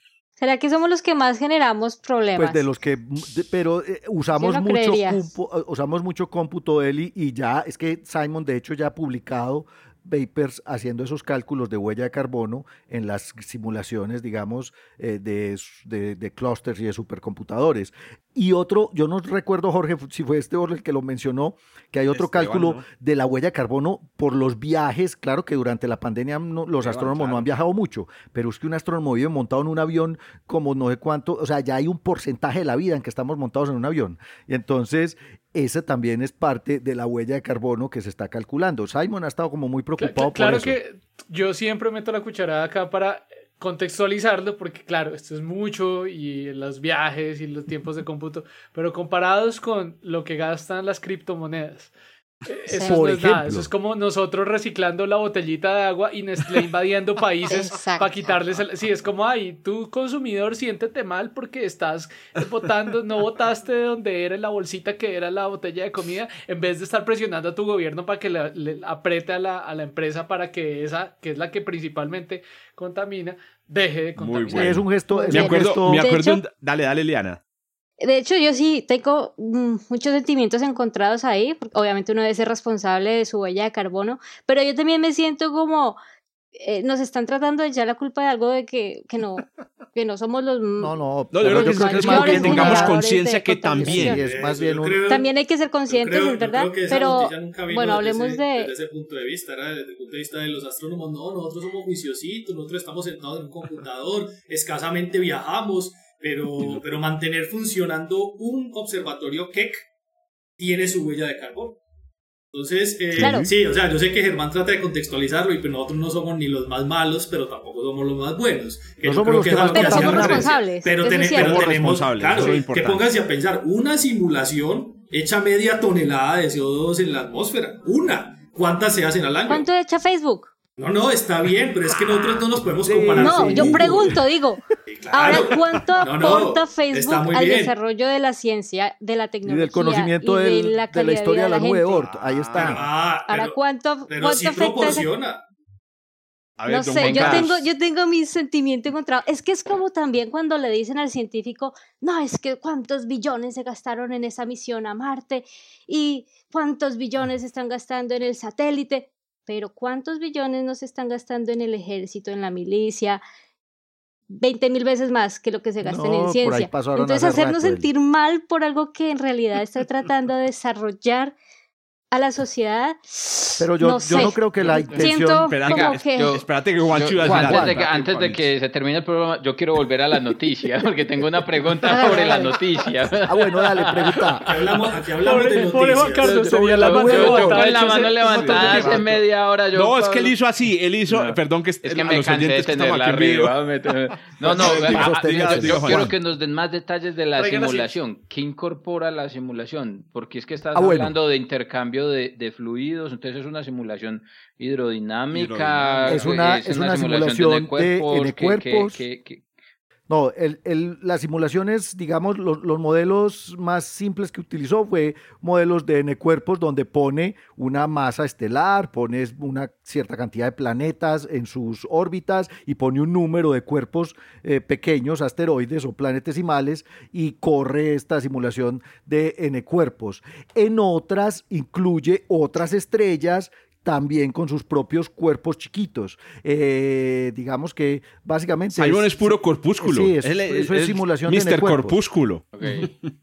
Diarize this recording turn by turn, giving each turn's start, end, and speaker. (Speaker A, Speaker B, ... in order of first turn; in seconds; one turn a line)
Speaker A: 0.4-2.6
Speaker B: 2.4-40.8
Speaker A: 4.4-5.3
Speaker C: 22.1-22.9
Speaker C: 26.8-27.6
Speaker D: 40.0-51.9
Speaker D: 52.5-75.2
Speaker A: 52.7-53.0
Speaker B: 52.9-53.7
Speaker A: 57.5-58.1
Speaker C: 74.2-77.4
Speaker B: 74.5-76.0
Speaker A: 75.1-76.4
Speaker A: 78.0-86.0
Speaker A: 86.6-94.2
Speaker B: 90.8-93.0
Speaker C: 91.3-94.2
Speaker B: 93.8-95.0
Speaker E: 94.1-95.3
Speaker A: 95.1-98.7
Speaker E: 95.9-109.9
Speaker E: 110.6-111.8
Speaker E: 112.5-129.7
Speaker B: 113.2-113.5
Speaker A: 113.2-113.5
Speaker B: 119.0-120.5
Speaker A: 119.7-121.7
Speaker C: 120.1-120.4
Speaker C: 121.3-123.0
Speaker A: 129.5-130.5
Speaker E: 130.8-134.2
Speaker C: 131.9-132.4
Speaker B: 132.8-134.2
Speaker A: 133.2-134.6
Speaker E: 134.9-137.8
Speaker C: 135.1-136.0
Speaker A: 135.1-142.1
Speaker B: 139.4-142.8
Speaker C: 142.0-142.9
Speaker E: 142.6-143.6
Speaker A: 143.3-145.1
Speaker E: 144.1-145.4
Speaker C: 146.6-147.7
Speaker A: 146.7-163.2
Speaker F: 147.0-147.5
Speaker A: 164.3-171.3
Speaker B: 165.8-167.9
Speaker A: 172.1-176.4
Speaker B: 173.6-175.5
Speaker F: 174.7-184.4
Speaker C: 175.3-178.5
Speaker B: 177.2-177.8
Speaker A: 181.8-182.6
Speaker B: 183.3-184.5
Speaker E: 184.4-186.3
Speaker D: 185.2-189.2
Speaker F: 186.2-190.3
Speaker B: 186.4-187.6
Speaker C: 188.2-193.6
Speaker F: 191.1-209.5
Speaker C: 194.1-196.1
Speaker B: 194.5-196.1
Speaker D: 197.4-197.9
Speaker B: 200.7-201.2
Speaker C: 205.3-206.4
Speaker B: 206.1-209.0
Speaker B: 210.1-242.0
Speaker C: 238.7-243.1
Speaker F: 242.6-242.9